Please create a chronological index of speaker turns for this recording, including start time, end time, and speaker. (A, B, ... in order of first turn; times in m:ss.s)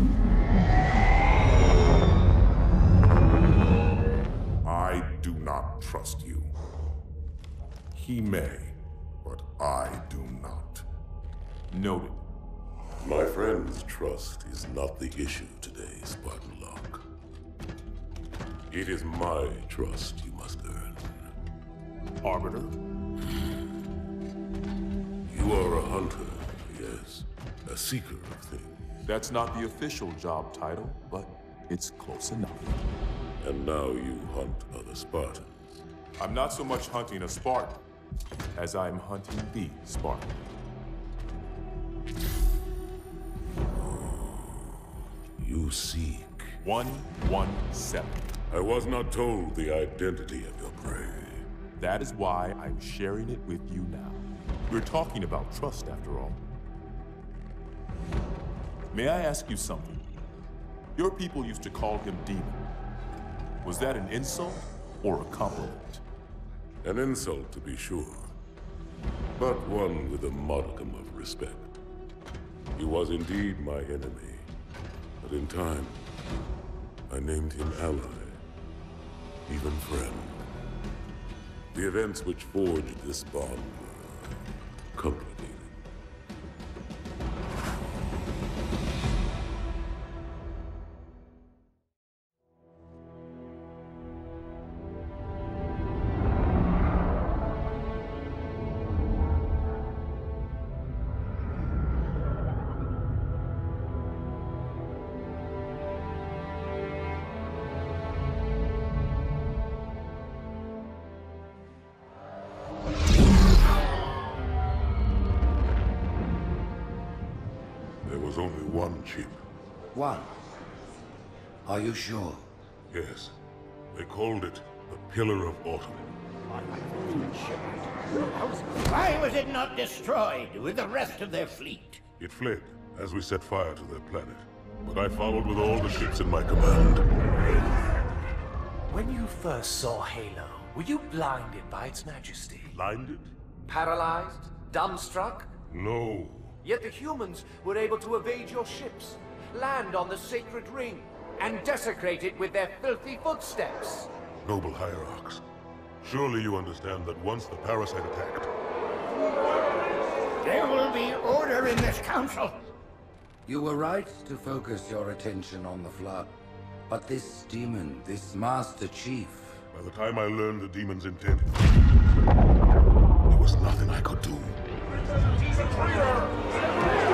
0:04.6-0:06.5 A
0:07.9-0:10.8 A
0:11.7-0:12.2 B
0:13.0-0:17.0 C
0:18.7-0:21.3 C
0:22.2-0:22.8 B
0:25.3-0:28.8 C
0:29.0-0:32.8 B
0:33.4-0:35.8 C
0:36.2-0:37.8 B
0:38.5-0:40.4 B
0:43.8-0:44.7 C
0:45.4-0:46.6 C
0:46.6-0:48.2 B
0:48.5-0:51.5 C
0:51.8-0:56.4 B
0:58.9-1:00.0 B
1:01.0-1:02.6 B
1:03.6-1:06.0 B
1:06.8-1:08.3 C
1:09.4-1:11.7 C
1:12.8-1:14.5 C
1:15.2-1:16.0 C
1:17.1-1:18.4 C
1:19.5-1:20.4 C
1:21.7-1:24.4 C
1:25.0-1:25.7 C
1:58.0-1:59.4 C
1:59.9-2:00.3 D
2:01.6-2:02.4 D
2:02.9-2:03.3 C
2:03.9-2:06.2 C
2:06.5-2:12.0 E
2:12.2-2:17.1 C
2:18.9-2:22.7 F
2:22.7-2:23.3 C
2:23.7-2:25.5 F
2:25.7-2:26.5 C
2:26.6-2:34.1 F
2:34.4-2:35.4 C
2:36.0-2:38.5 C
2:40.4-2:42.7 E
2:43.4-2:46.4 D
2:46.9-2:49.6 D
2:49.7-2:51.6 C
2:53.3-2:54.6 C